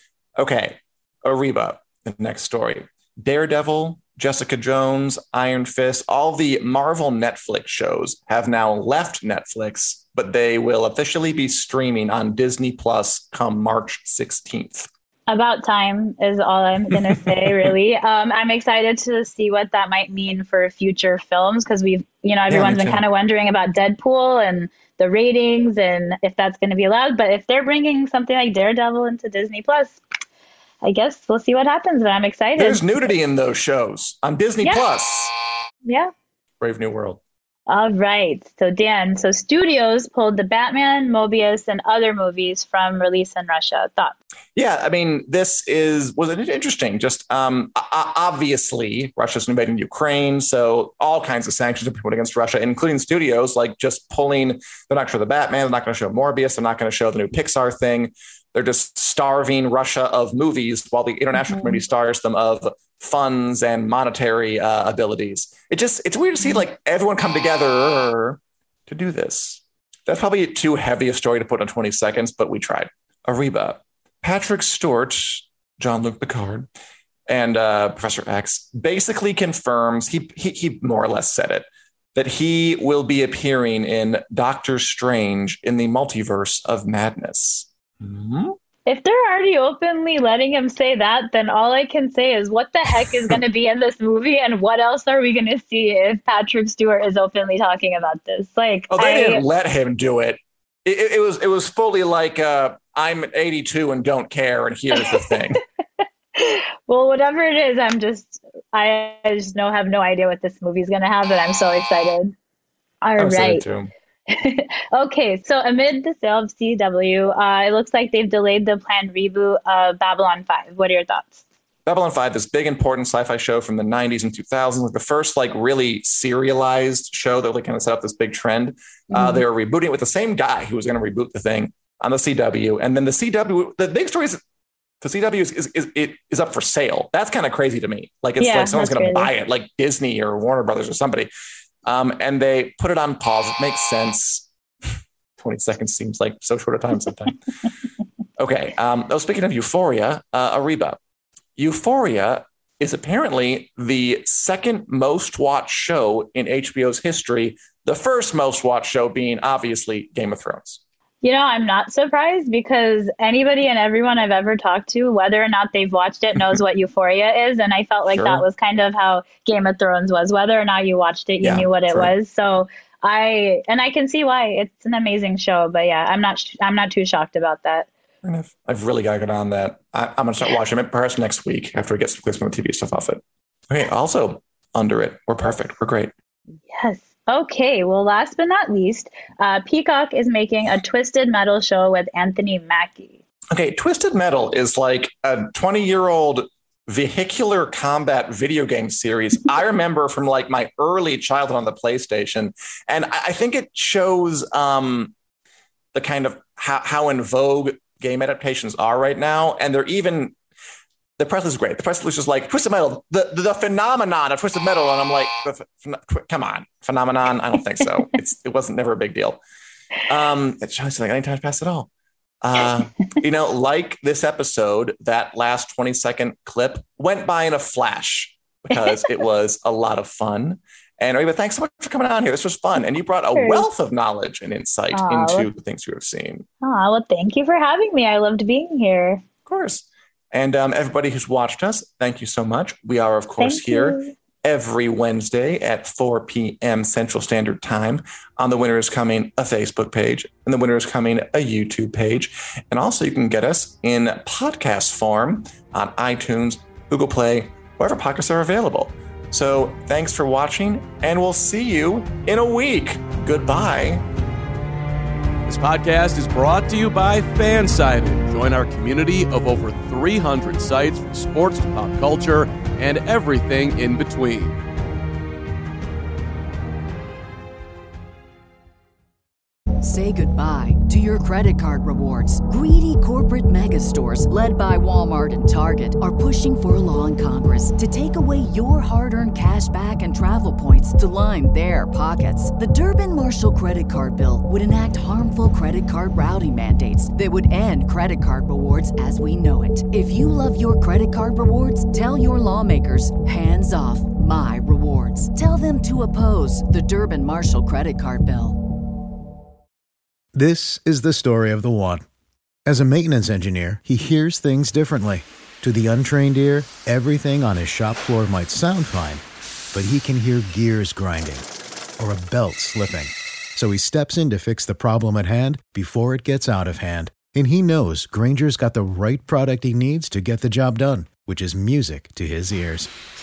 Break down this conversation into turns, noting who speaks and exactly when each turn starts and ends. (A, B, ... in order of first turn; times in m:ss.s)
0:00.4-0:14.9 A
0:15.3-0:30.0 B
0:16.9-0:17.7 A
0:22.5-0:23.0 A
0:30.8-0:33.1 B
0:32.6-0:35.3 A
0:35.8-0:36.1 B
0:36.6-0:37.2 A
0:37.7-0:44.2 B
0:44.6-1:16.7 A
1:01.3-1:01.8 B
1:17.3-1:28.6 A
1:28.8-1:39.4 B
1:38.9-1:45.6 A
1:45.0-1:45.4 B
1:46.3-1:52.3 B
1:53.0-1:53.6 B
1:53.2-1:53.9 A
1:54.3-2:01.4 B
2:01.8-2:14.4 A
2:09.1-2:09.4 B
2:15.0-2:21.3 A
2:18.4-2:19.3 B
2:21.8-2:24.5 A
2:25.4-2:27.4 A
2:28.4-2:31.0 A
2:31.6-2:40.8 A
2:41.2-2:57.9 B
2:48.1-2:48.4 A
2:51.4-2:52.1 A
2:58.2-3:06.1 A
3:06.7-3:13.2 B
3:13.5-3:25.1 A
3:25.9-3:30.4 A
3:31.2-3:39.4 A
3:40.1-3:41.9 A
3:42.4-3:56.5 A
3:48.7-3:49.0 B
3:53.3-3:53.6 B
3:54.9-3:55.5 B
3:56.6-3:59.2 B
3:59.4-4:24.0 A
4:03.4-4:04.1 B
4:25.4-4:34.6 C
4:39.8-5:08.6 D
5:10.3-5:12.0 E
5:12.7-5:21.4 E
5:22.0-5:32.9 E